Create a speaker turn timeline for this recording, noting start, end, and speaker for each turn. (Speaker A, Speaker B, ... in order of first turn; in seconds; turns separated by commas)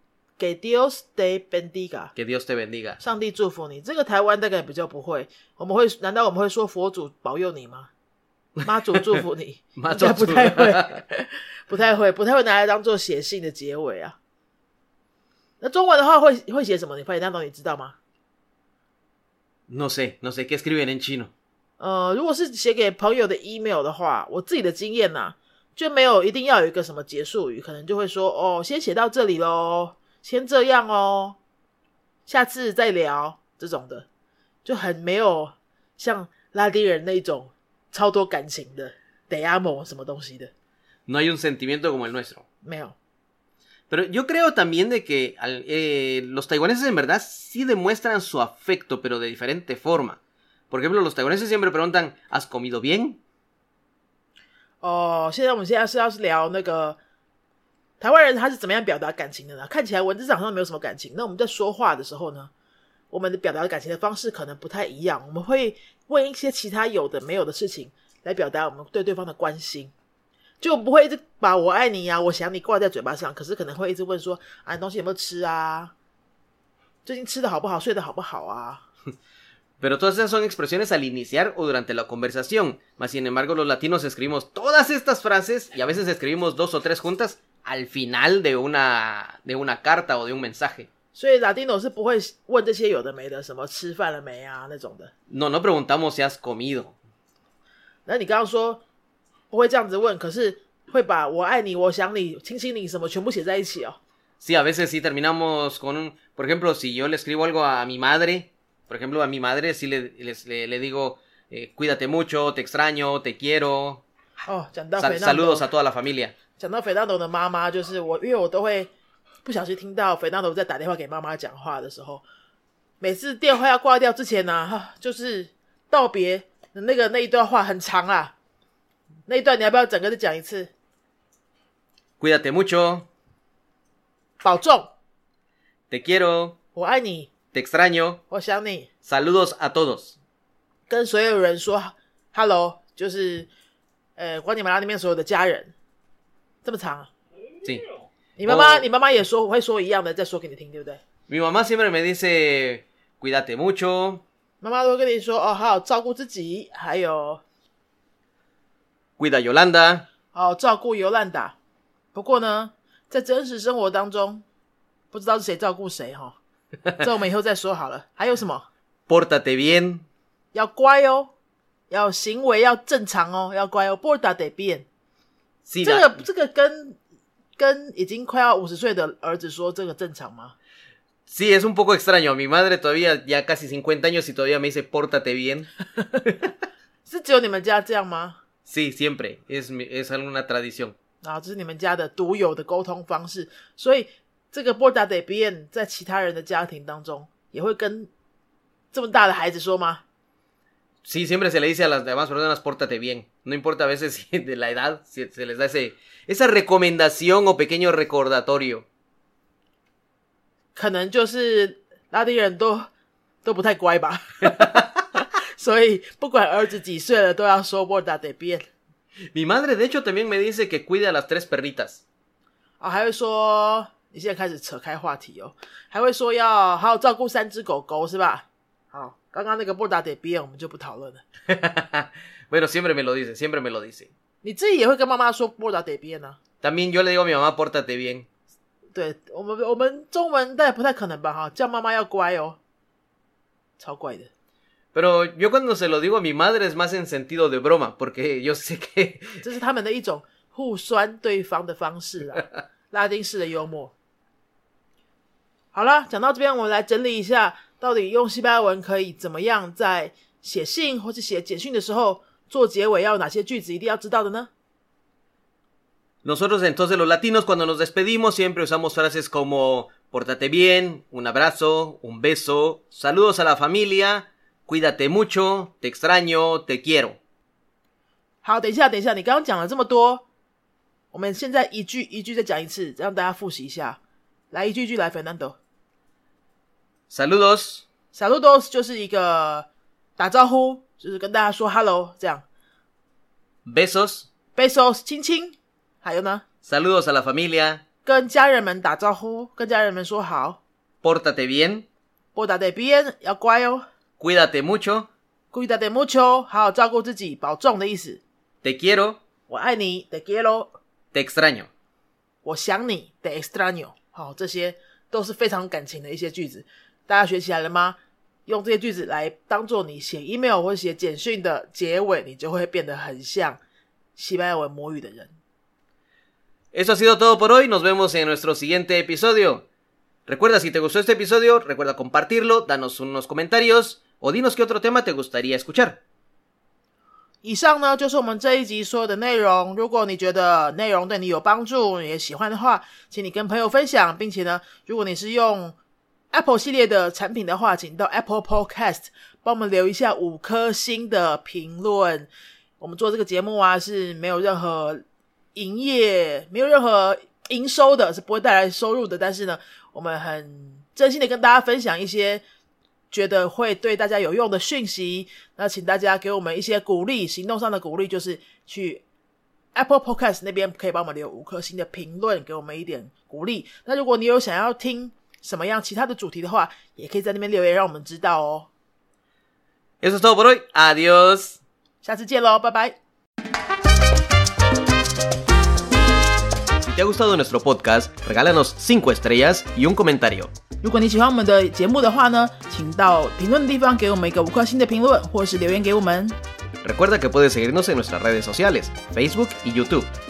Speaker A: 0.4-2.1, Speaker B: 2.1-3.0, Speaker A: 3.0-7.9, Speaker B: 8.6-9.2, Speaker A: 8.6-14.2, Speaker B: 9.8-10.9, Speaker A: 15.6-18.0, Speaker B: 19.7-21.3, Speaker A: 21.8-31.4, Speaker A: 32.3-34.1, Speaker A: 34.6-40.5, Speaker B: 41.1-42.4, Speaker A: 42.6-43.0, Speaker B: 43.9-50.2, Speaker B: 50.7-53.2, Speaker A: 54.8-57.0, Speaker A: 58.0-62.5, Speaker A: 63.1-69.9, Speaker A: 70.6-75.9, Speaker A: 77.0-78.8, Speaker B: 79.8-90.9, Speaker A: 91.1-95.1, Speaker B: 95.3-97.0, Speaker A: 98.1-98.8, Speaker A: 99.5-104.0, Speaker B: 104.4-114.0, Speaker A: 114.5-115.7, Speaker B: 115.0-116.3, Speaker A: 116.6-118.9, Speaker A: 119.5-122.2, Speaker A: 123.0-128.3, Speaker A: 129.3-130.7, Speaker B: 132.2-133.1, Speaker A: 134.4-134.9, Speaker B: 135.9-136.6, Speaker A: 136.8-137.3, Speaker B: 137.5-138.2, Speaker A: 138.3-138.9, Speaker B: 139.1-140.2, Speaker A: 140.9-143.5, Speaker A: 144.2-145.7, Speaker A: 146.6-147.1, Speaker A: 148.4-151.0, Speaker B: 148.4-148.9, Speaker B: 151.3-154.2, Speaker A: 154.6-157.4, Speaker B: 159.2-160.1, Speaker A: 160.3-161.6, Speaker A: 162.1-164.4, Speaker A: 165.1-166.4, Speaker A: 166.9-168.7, Speaker B: 169.1-170.1, Speaker A: 170.5-171.3, Speaker A: 171.9-174.9, Speaker B: 175.7-176.2, Speaker A: 175.8-177.0, Speaker A: 177.6-180.6, Speaker B: 181.3-185.7, Speaker A: 187.1-188.4, Speaker B: 188.7-190.9, Speaker A: 191.2-198.1, Speaker A: 198.9-200.0, Speaker B: 201.0-208.8, Speaker A: 210.8-212.9, Speaker A: 213.4-218.7, Speaker B: 219.3-222.0, Speaker A: 222.8-231.2, Speaker B: 231.5-234.1, Speaker A: 234.4-236.4, Speaker B: 236.6-238.3, Speaker A: 238.9-242.6, Speaker A: 243.8-244.3, Speaker B: 244.9-249.4, Speaker A: 249.4-253.9, Speaker A: 255.7-264.5, Speaker B: 266.2-277.2, Speaker A: 278.4-280.2, Speaker A: 281.1-284.0, Speaker A: 284.5-285.6, Speaker B: 287.1-287.9, Speaker A: 288.1-292.4, Speaker B: 293.6-294.3, Speaker A: 294.6-296.4, Speaker B: 296.6-297.8, Speaker A: 298.0-300.6, Speaker B: 301.0-301.9, Speaker A: 302.4-303.9, Speaker B: 304.2-305.1, Speaker A: 305.5-308.2, Speaker B: 308.6-309.2, Speaker A: 309.5-310.8, Speaker B: 311.1-311.7, Speaker A: 312.4-323.6, Speaker A: 324.2-325.3, Speaker B: 326.7-329.7, Speaker B: 330.3-336.0, Speaker A: 337.4-345.8, Speaker A: 346.3-352.3, Speaker A: 352.8-355.0, Speaker A: 355.6-362.4, Speaker A: 363.1-369.0, Speaker A: 369.7-378.7, Speaker B: 380.0-381.6, Speaker A: 382.0-383.0, Speaker B: 386.8-390.5, Speaker A: 390.8-396.4, Speaker B: 396.8-400.1